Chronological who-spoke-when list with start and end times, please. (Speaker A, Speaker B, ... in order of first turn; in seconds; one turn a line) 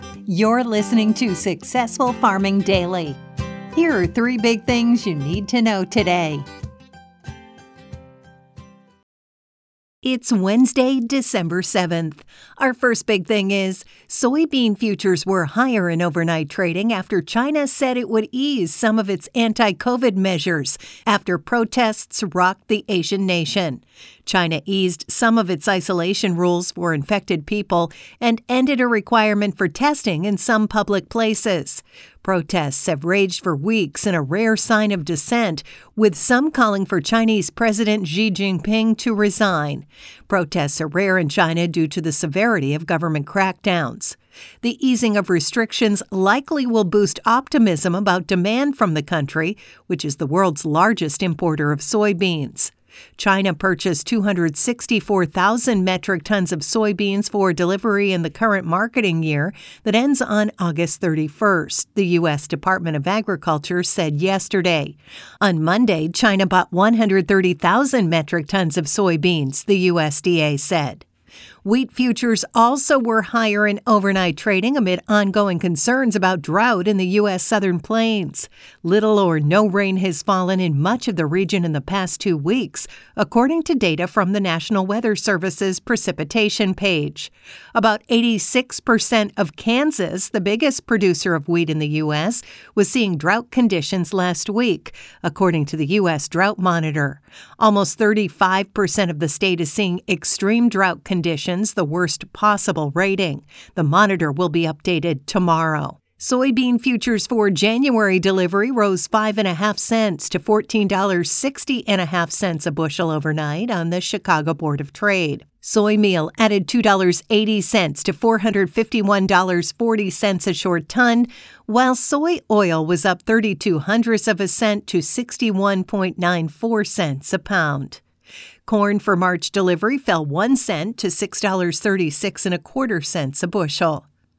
Speaker A: 0.3-3.2
Speaker A: 3.7-6.5
Speaker A: 10.0-71.0
Speaker A: 71.6-128.0
Speaker A: 128.7-134.1